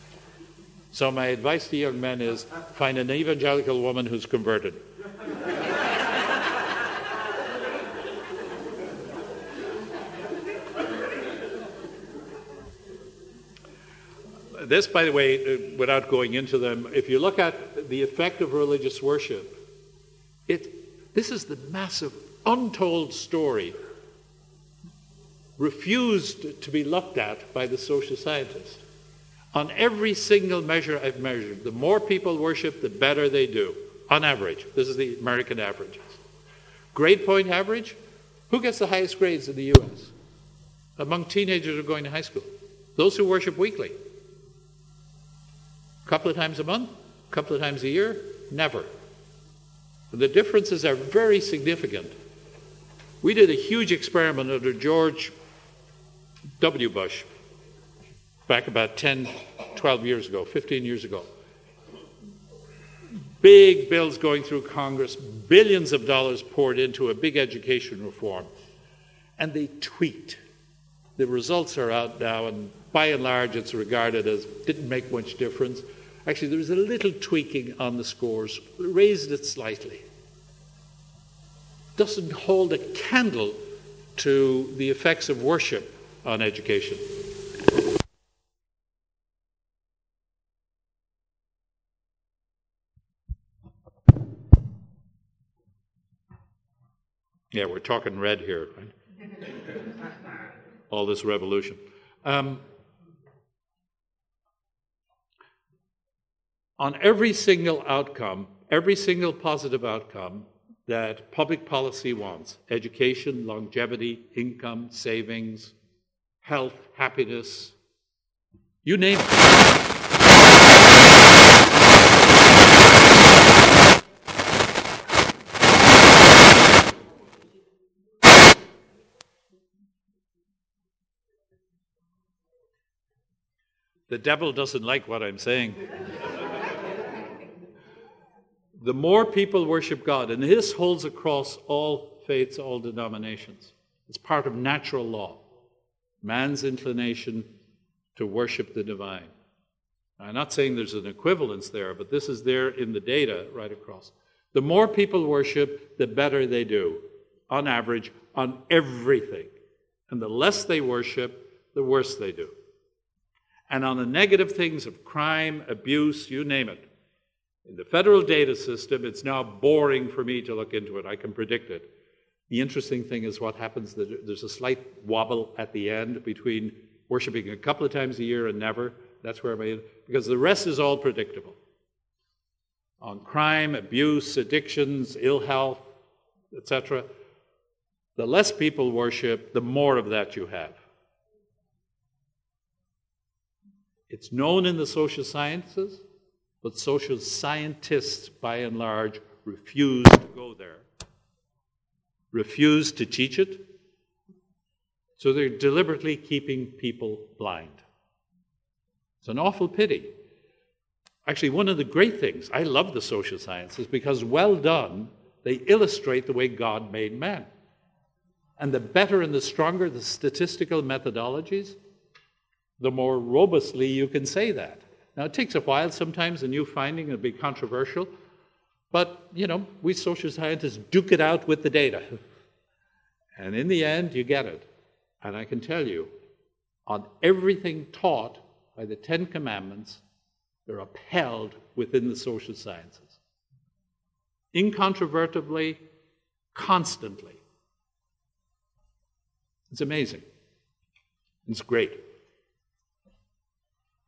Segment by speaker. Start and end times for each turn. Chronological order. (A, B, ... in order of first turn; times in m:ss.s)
0:00.9-0:04.8 A
0:14.5-0:19.6 A
0:20.5-0:23.8 A
0:25.6-0:28.8 A
0:29.5-0:36.2 A
0:36.9-0:38.0 A
0:38.5-0:40.1 A
0:41.0-0:44.0 A
0:46.0-0:48.9 A
0:50.1-0:52.1 A
0:53.2-0:55.3 A
0:56.6-0:57.3 A
0:58.5-1:01.3 A
1:03.4-1:08.5 A
1:09.4-1:10.4 A
1:11.2-1:20.0 A
1:22.0-1:23.6 A
1:24.2-1:27.0 A
1:37.5-1:38.9 A
1:40.9-1:42.6 A
1:46.8-1:55.7 A
1:56.4-1:57.8 A
1:58.8-1:59.6 A
2:14.1-2:15.8 A
2:18.8-2:25.4 A
2:26.2-2:27.5 A
2:28.2-2:29.3 A
2:30.2-2:39.5 A
2:40.1-2:42.5 A
2:43.7-2:46.9 A
2:47.6-2:51.9 A
2:52.5-3:01.6 A
3:03.0-3:05.8 A
3:06.5-3:07.1 A
3:08.2-3:10.8 A
3:14.1-3:16.0 A
3:16.6-3:20.9 A
3:22.3-3:23.6 A
3:25.2-3:27.8 A
3:29.2-3:30.1 A
3:31.2-3:37.5 A
3:38.6-3:41.8 A
3:42.8-3:48.1 A
3:48.9-3:52.2 A
3:53.4-3:54.7 A
3:55.2-3:56.1 A
3:56.9-4:00.0 A
4:00.7-4:03.2 A
4:04.5-4:05.8 A
4:06.5-4:07.4 A
4:09.7-4:10.2 A
4:11.4-4:12.0 A